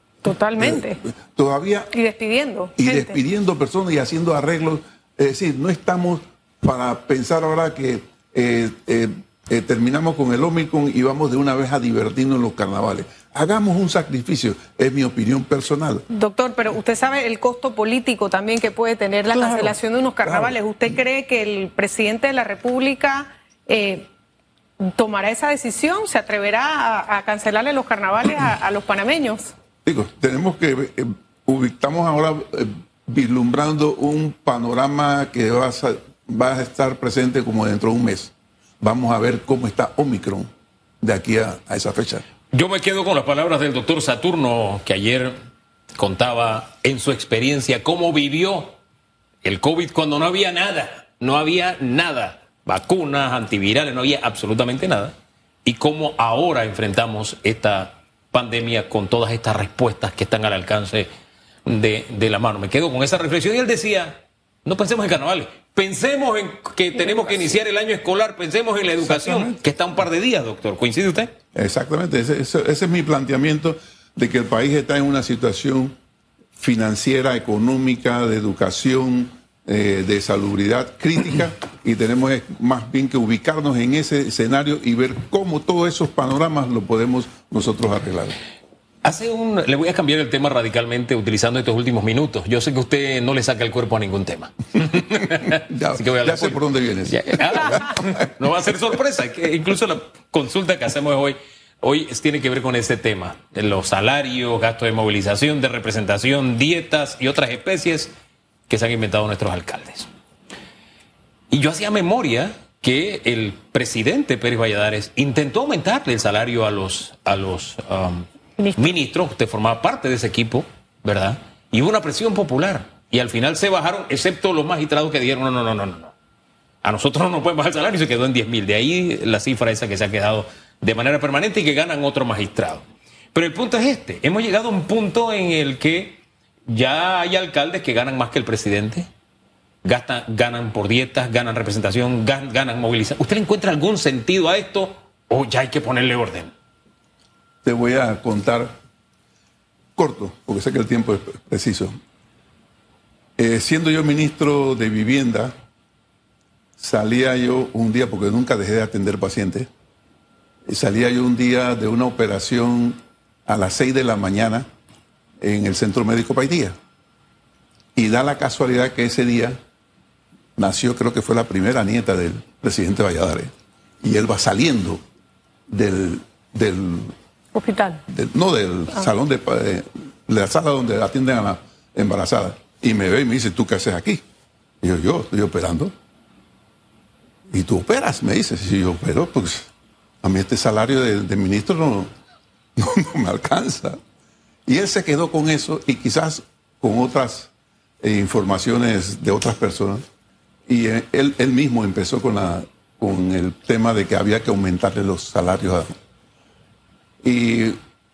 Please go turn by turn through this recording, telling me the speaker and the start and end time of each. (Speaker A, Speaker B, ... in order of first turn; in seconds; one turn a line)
Speaker A: 0.2-1.0
Speaker B: 0.6-1.9
Speaker A: 1.9-3.2
Speaker B: 2.8-16.0
Speaker A: 16.1-24.1
Speaker B: 19.3-19.7
Speaker B: 20.2-20.5
Speaker A: 24.8-29.5
Speaker B: 29.8-40.5
Speaker B: 41.0-42.2
Speaker C: 42.5-45.3
Speaker C: 46.0-48.7
Speaker C: 49.4-55.1
Speaker C: 55.6-61.1
Speaker C: 61.6-71.3
Speaker B: 69.0-69.6
Speaker B: 71.5-75.9
Speaker B: 76.6-88.3
Speaker C: 89.0-108.1
Speaker B: 95.2-98.2
Speaker C: 108.7-110.1
Speaker C: 111.5-126.1
Speaker A: 118.6-118.9
Speaker C: 126.8-139.1
Speaker C: 139.8-146.5
Speaker B: 147.6-148.8
Speaker B: 149.9-151.9
Speaker B: 153.4-155.5
Speaker B: 156.8-159.7
Speaker B: 160.7-164.7
Speaker B: 165.4-166.7
Speaker B: 167.9-169.6
Speaker B: 170.6-173.5
Speaker B: 174.0-175.0
Speaker B: 175.7-177.1
Speaker A: 177.5-178.0
Speaker B: 178.1-184.2
Speaker B: 184.8-185.9
Speaker B: 187.5-189.7
Speaker B: 190.2-192.1
Speaker B: 192.8-194.0
Speaker B: 194.7-200.0
Speaker B: 200.7-205.9
Speaker B: 207.2-207.8